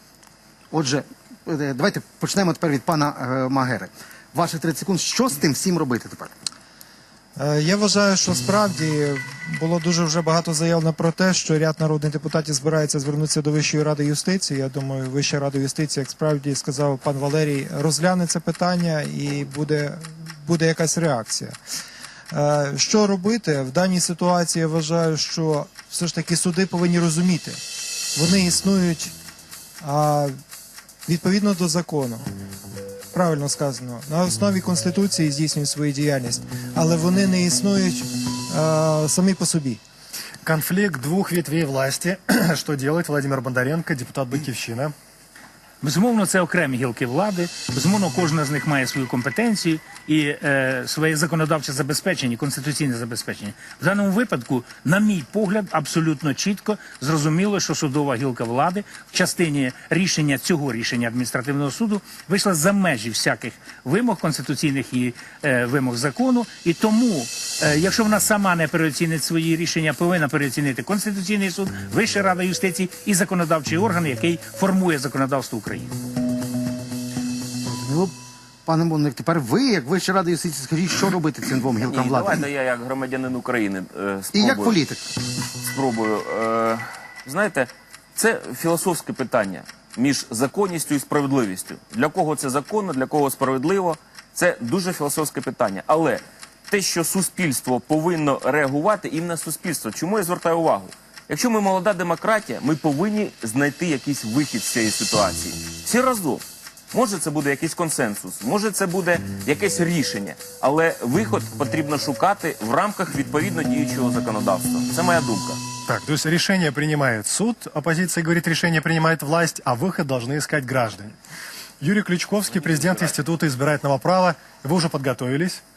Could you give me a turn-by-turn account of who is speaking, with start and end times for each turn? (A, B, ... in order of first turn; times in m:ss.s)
0:00.7-0:06.3 A
0:07.4-0:21.6 B
0:22.3-0:27.6 B
0:28.1-0:29.1 B
0:29.8-0:30.3 B
0:31.0-0:32.2 B
0:33.1-0:39.8 B
0:40.4-0:44.9 C
0:45.8-1:15.9 D
1:17.6-1:18.1 A
1:18.6-1:22.4 A
1:21.8-1:24.8 E
1:24.3-1:25.0 A
1:25.6-1:55.6 E
1:55.8-2:01.1 C
2:01.8-2:05.6 C
2:02.7-2:03.1 E